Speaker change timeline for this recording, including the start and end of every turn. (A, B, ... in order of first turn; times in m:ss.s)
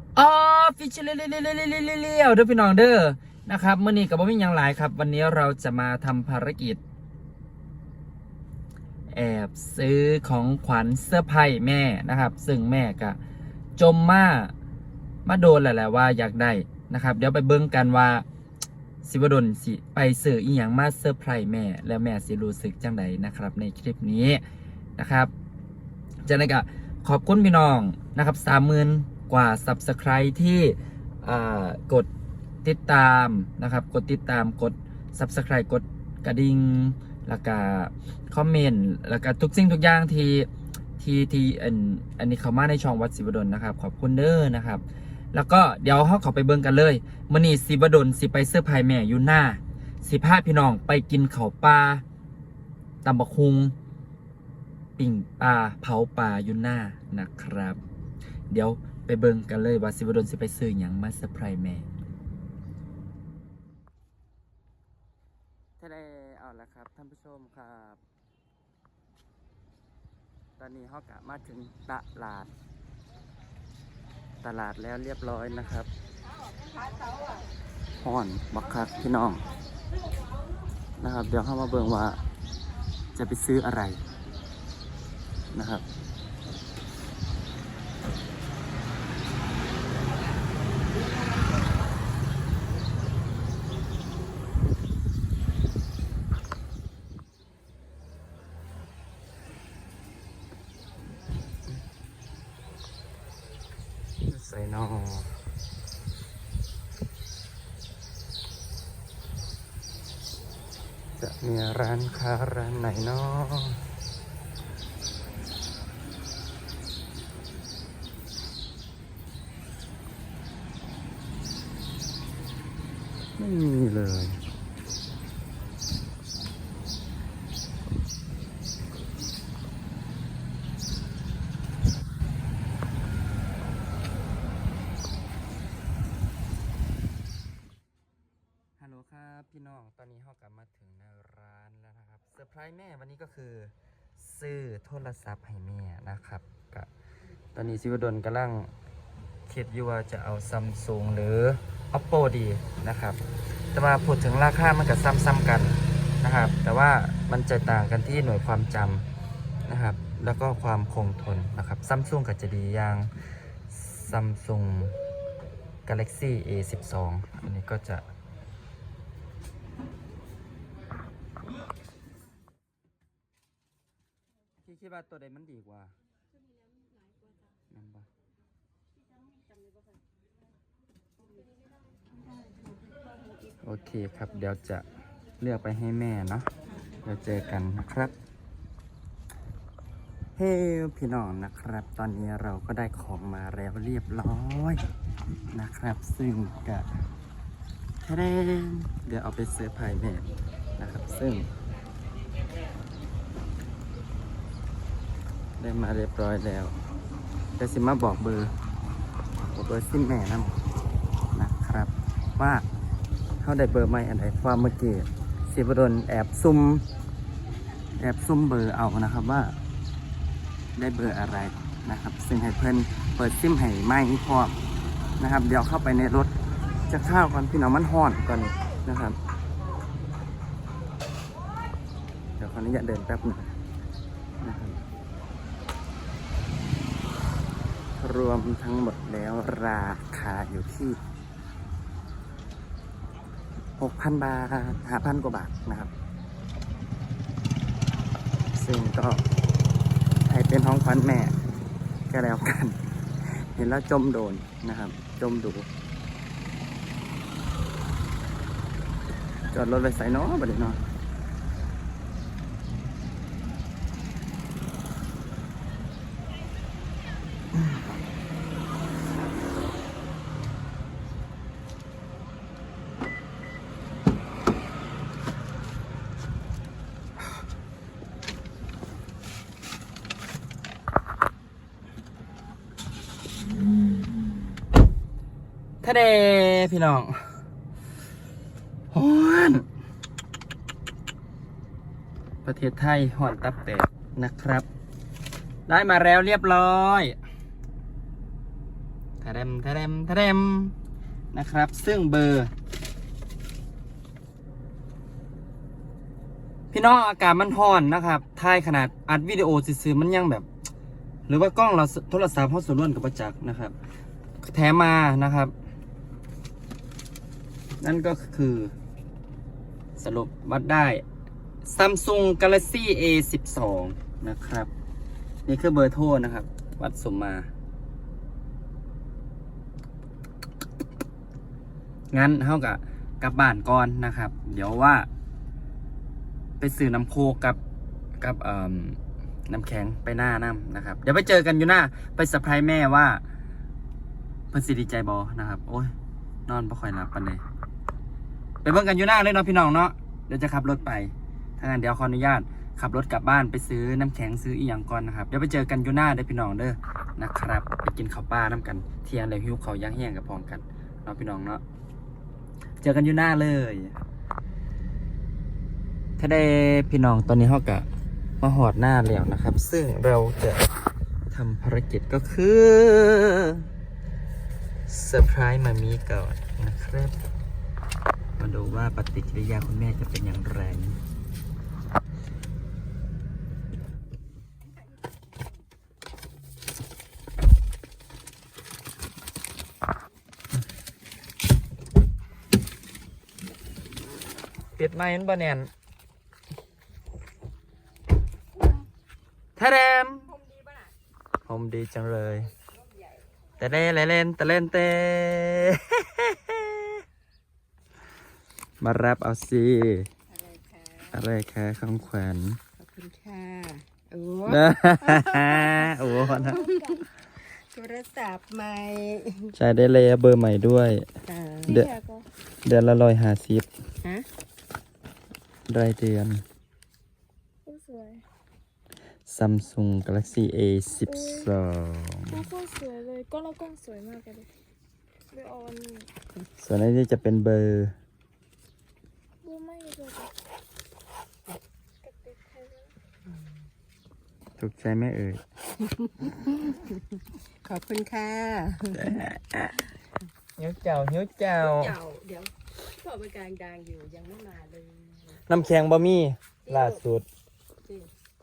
0:00.2-0:06.8 A
0:09.1-0:13.2 A
0:13.8-0:14.5 A
0:15.3-0:18.2 A
0:19.0-0:24.4 A
0:25.0-0:25.3 A
0:26.3-0:32.1 A
0:32.6-0:52.0 A
0:53.0-0:53.7 A
0:55.0-0:57.8 A
0:58.5-1:01.9 A
1:05.8-1:08.0 A
1:10.6-1:12.5 A
1:14.4-1:15.9 A
1:16.5-1:17.4 B
1:18.0-1:19.4 A
1:21.0-1:22.2 A
1:23.2-1:24.0 A
1:25.5-1:25.8 A
1:44.2-1:45.3 A
1:51.2-1:53.8 A
2:03.4-2:04.4 A
2:18.8-2:26.9 A
2:27.6-2:28.7 A
2:29.5-2:33.2 A
2:33.7-2:39.0 A
2:39.7-2:43.1 A
2:43.7-2:45.0 A
2:45.9-2:48.1 A
2:54.6-2:55.9 A
2:57.7-2:58.1 A
3:03.6-3:04.8 A
3:05.4-3:06.5 A
3:07.0-3:08.1 A
3:10.4-3:14.8 A
3:15.5-3:16.9 A
3:18.0-3:20.3 A
3:20.8-3:21.5 A
3:25.6-3:26.8 A
3:27.6-3:28.5 A
3:29.5-3:30.6 A
3:31.3-3:32.7 A
3:33.4-3:36.8 A
3:38.0-3:39.6 A
3:40.8-3:44.6 A
3:45.2-3:49.2 A
3:52.4-3:53.5 A
3:54.4-3:54.8 A
3:58.0-4:01.0 A
4:03.8-4:05.9 A
4:08.5-4:09.2 A
4:10.2-4:11.4 A
4:12.1-4:15.7 A
4:19.5-4:20.8 A
4:45.8-4:47.4 A
4:48.9-4:49.7 A
4:52.4-4:54.7 A
4:55.7-4:57.2 A
4:59.2-5:00.8 A
5:01.3-5:02.5 A
5:06.7-5:10.5 A
5:11.3-5:13.8 A
5:14.4-5:15.5 A
5:17.8-5:18.7 A
5:20.0-5:21.0 A
5:21.6-5:24.7 A
5:25.5-5:27.5 A
5:32.1-5:35.1 A
5:36.6-5:37.6 A
5:38.2-5:43.2 A
5:44.5-5:45.9 A
5:46.5-5:47.4 A
5:48.6-6:01.6 A
6:02.8-6:04.0 A
6:06.2-6:07.9 A
6:08.4-6:10.7 A
6:11.3-6:13.7 A
6:14.9-6:17.2 A
6:18.4-6:21.0 A
6:24.8-6:25.2 B
6:34.8-6:35.7 A
6:39.6-6:40.3 A
6:40.2-6:41.0 B
6:41.5-6:42.5 A
6:42.7-6:43.3 B
6:43.6-6:47.0 A
6:48.8-6:50.1 A
6:50.3-6:51.2 B
6:51.1-6:52.6 A
6:52.8-6:59.6 B
6:54.5-6:56.6 A
6:56.4-6:57.1 C
6:59.6-7:01.1 A
7:01.3-7:01.8 B
7:01.6-7:01.9 A
7:01.7-7:02.3 C
7:02.6-7:03.7 A
7:05.7-7:06.4 A
7:07.7-7:08.2 C
7:09.3-7:12.5 A
7:11.0-7:11.5 C
7:12.3-7:14.5 C
7:15.3-7:16.1 C
7:16.6-7:18.0 A
7:19.4-7:20.3 C
7:22.0-7:22.9 C
7:24.6-7:25.4 A
7:26.0-7:27.0 B
7:27.6-7:29.1 B
7:28.9-7:29.8 A
7:30.6-7:31.9 A
7:31.6-7:35.4 B
7:35.5-7:37.3 A
7:36.7-7:37.0 B
7:37.8-7:38.1 B